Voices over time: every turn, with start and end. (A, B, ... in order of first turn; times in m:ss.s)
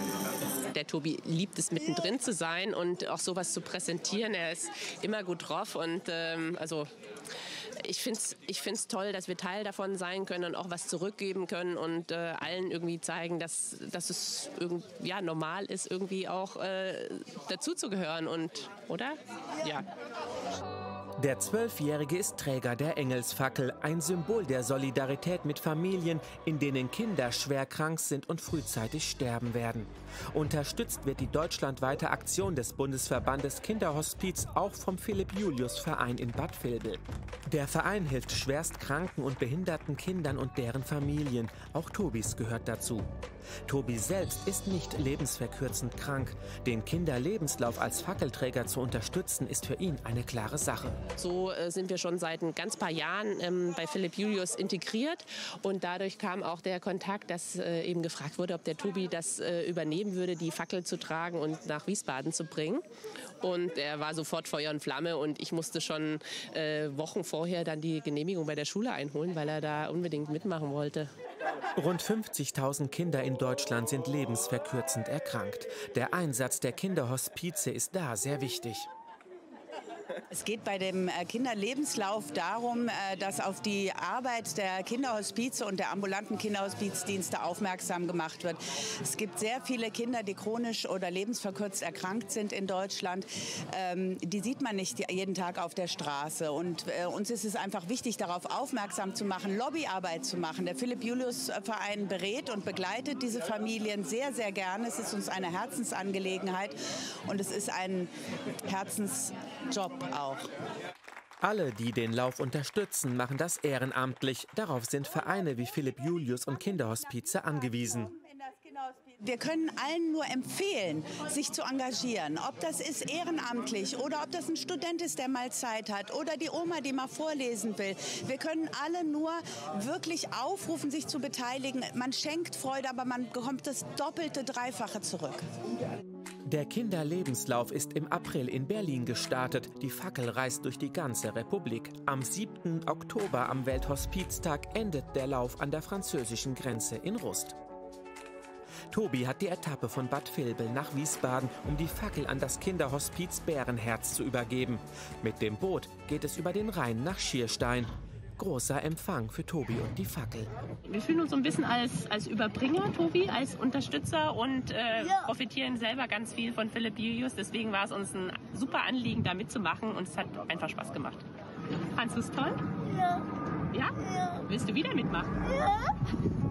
0:00.7-0:06.9 A
0:07.8-0:19.8 A
0:21.2-0:43.1 B
0:43.6-0:51.0 B
0:51.2-1:02.8 A
1:03.4-1:11.1 A
1:11.8-1:18.9 B
1:20.3-1:48.1 C
1:48.7-1:50.5 C
1:51.4-1:58.1 B
1:58.2-2:15.4 C
2:16.4-2:27.6 B
2:28.9-2:40.5 B
2:40.8-2:51.2 A
2:51.9-2:53.2 A
2:53.7-2:55.7 A